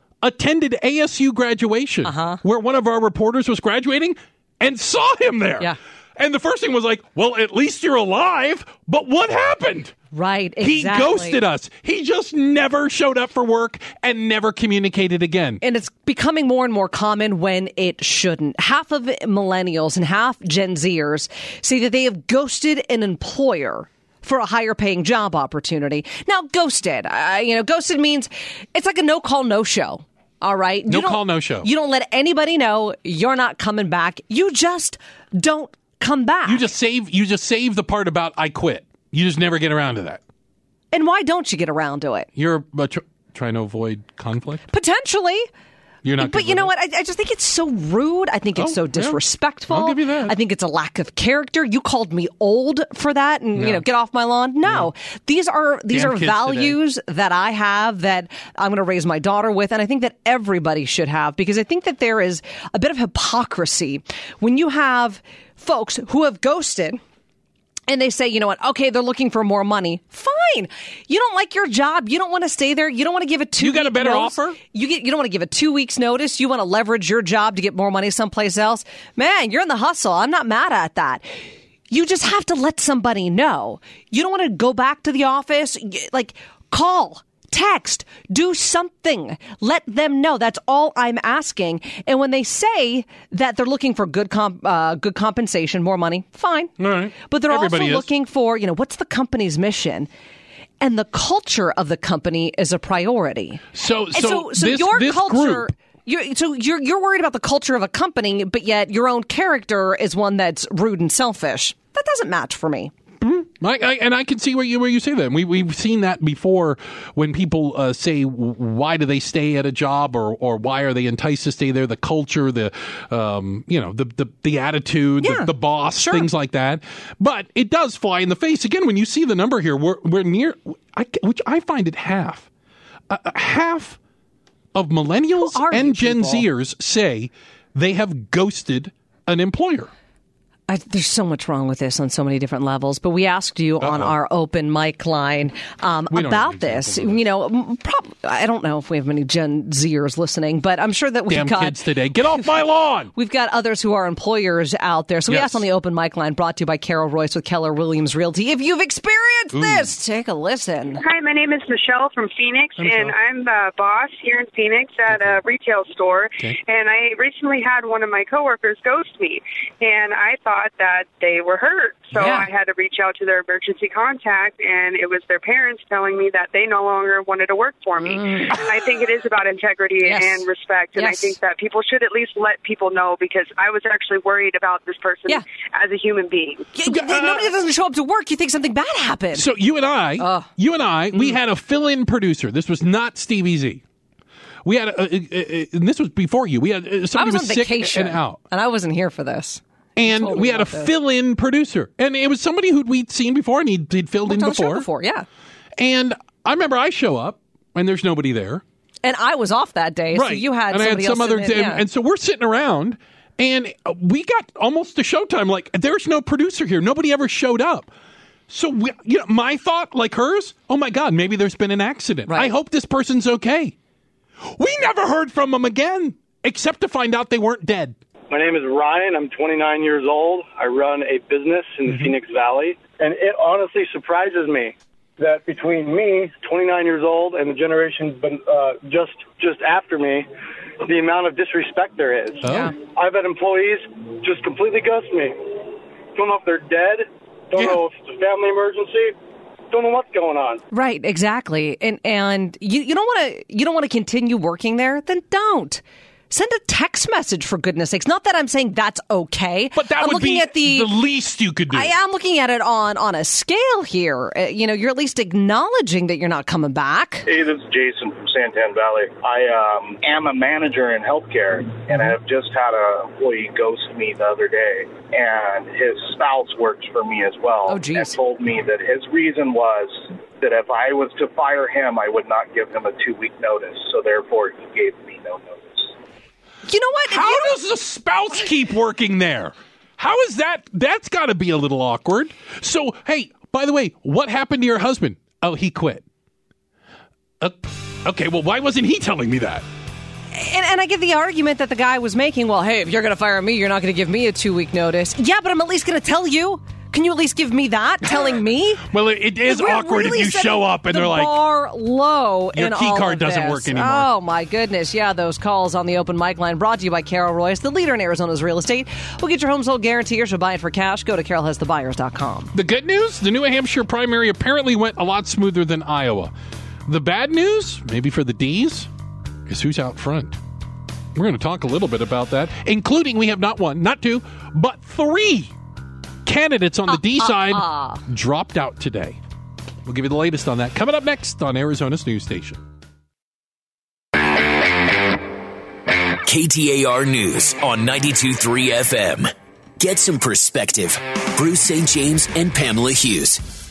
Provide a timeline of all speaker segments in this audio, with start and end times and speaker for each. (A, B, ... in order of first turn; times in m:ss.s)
0:00.2-0:10.0 A
0:02.0-0:02.4 B
0:10.1-0:11.4 B
0:10.6-0:15.6 A
0:15.6-0:36.7 B
0:30.9-0:31.7 A
0:36.4-0:40.2 A
0:40.9-0:42.3 B
0:42.4-0:44.6 A
0:44.7-0:45.5 B
0:46.0-0:46.7 A
0:46.2-1:07.0 B
0:48.5-0:50.4 A
0:53.6-0:53.8 A
0:54.6-0:54.9 A
0:55.9-0:56.8 A
1:07.9-1:21.3 B
1:13.6-1:14.6 A
1:21.9-1:36.7 B
1:36.8-1:38.1 A
1:37.2-1:40.1 B
1:40.8-1:52.9 B
1:43.7-1:45.7 A
1:53.2-2:12.5 A
2:05.2-2:06.3 B
2:13.1-2:14.0 A
2:14.7-2:19.9 A
2:15.3-2:16.4 B
2:20.7-2:31.8 B
2:23.8-2:24.1 A
2:26.1-2:27.2 A
2:31.3-2:33.1 A
2:33.1-2:41.0 B
2:35.3-2:35.6 A
2:39.5-2:39.9 A
2:41.0-3:06.7 C
2:42.8-2:43.2 A
2:45.1-2:45.4 A
2:52.1-2:52.5 B
2:58.0-2:58.7 B
3:00.0-3:00.4 B
3:01.0-3:01.3 B
3:06.7-3:09.5 B
3:06.8-3:07.5 A
3:09.3-3:13.8 A
3:10.2-3:10.5 B
3:14.6-3:18.4 A
3:17.1-3:20.9 B
3:20.0-3:24.9 A
3:24.2-3:25.2 B
3:25.8-3:28.6 A
3:29.0-3:31.8 B
3:30.1-3:37.9 A
3:38.5-3:43.7 A
3:42.3-3:42.5 B
3:44.4-3:48.0 A
3:48.3-4:00.3 D
3:51.8-3:52.2 A
4:00.8-4:05.5 D
4:02.4-4:02.7 A
4:02.4-4:02.7 B
4:06.1-4:09.2 D
4:07.5-4:07.8 A
4:09.7-4:10.6 D
4:10.7-4:20.9 B
4:19.7-4:21.9 A
4:21.7-4:27.3 B
4:27.3-4:45.9 E
4:37.7-4:38.2 B
4:46.7-4:47.6 B
4:47.1-4:56.0 A
4:57.4-4:59.6 A
5:00.3-5:08.9 B
5:08.8-5:11.4 A
5:09.5-5:22.5 B
5:12.5-5:14.1 A
5:22.5-5:26.3 A
5:26.9-5:28.9 A
5:29.5-5:30.4 A
5:31.1-5:35.5 A
5:36.2-5:39.2 A
5:36.9-5:38.0 B
5:39.8-5:42.6 A
5:46.2-5:53.4 F